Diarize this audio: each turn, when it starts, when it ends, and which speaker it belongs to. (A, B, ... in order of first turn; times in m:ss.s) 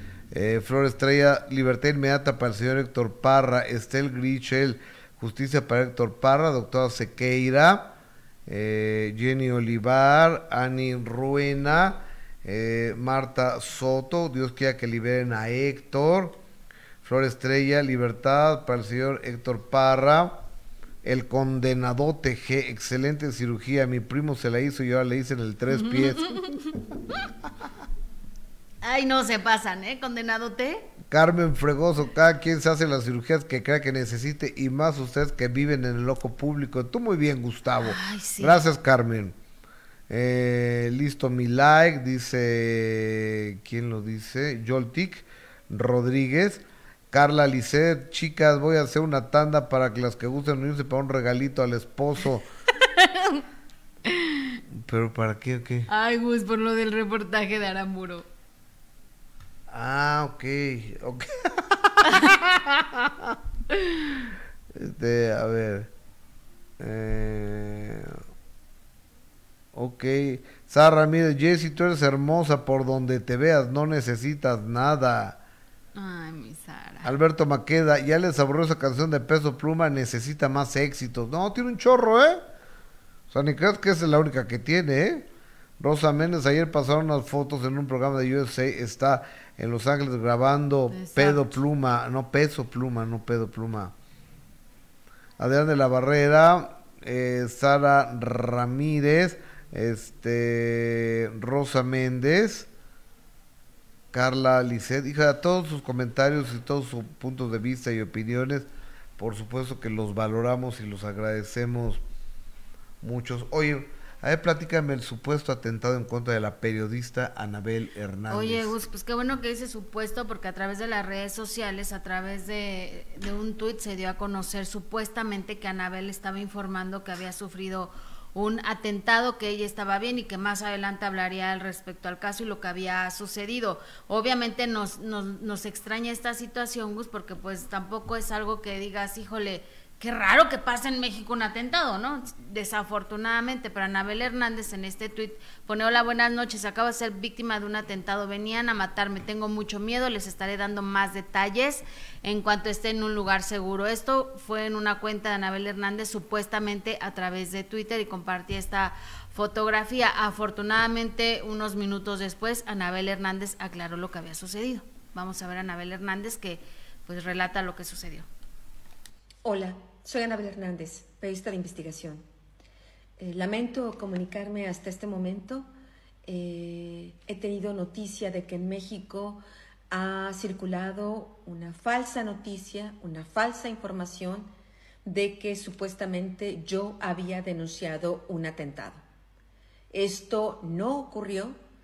0:00.3-0:08.0 A
0:08.5-0:16.4 A
0:17.0-0:20.5 A
0:21.0-0:26.5 A
0:25.7-0:26.6 B
0:28.8-0:30.9 B
0:31.1-0:39.4 A
0:37.8-0:38.6 B
0:40.1-0:52.5 A
0:52.8-0:53.4 B
0:54.1-0:54.6 B
0:54.7-0:55.9 A
0:55.9-0:58.2 B
0:59.7-1:03.4 A
1:04.7-1:05.9 A
1:06.8-1:08.2 A
1:09.7-1:15.4 A
1:16.0-1:17.1 B
1:17.0-1:22.4 A
1:23.3-1:25.3 A
1:25.8-1:33.9 A
1:30.9-1:31.6 B
1:35.4-1:42.7 A
1:44.1-1:52.0 A
1:53.0-1:58.7 A
1:58.3-2:48.3 B
2:49.4-2:52.2 C
2:53.2-2:55.7 C
2:56.3-3:04.5 C
3:05.0-3:09.0 C
3:09.9-3:11.6 C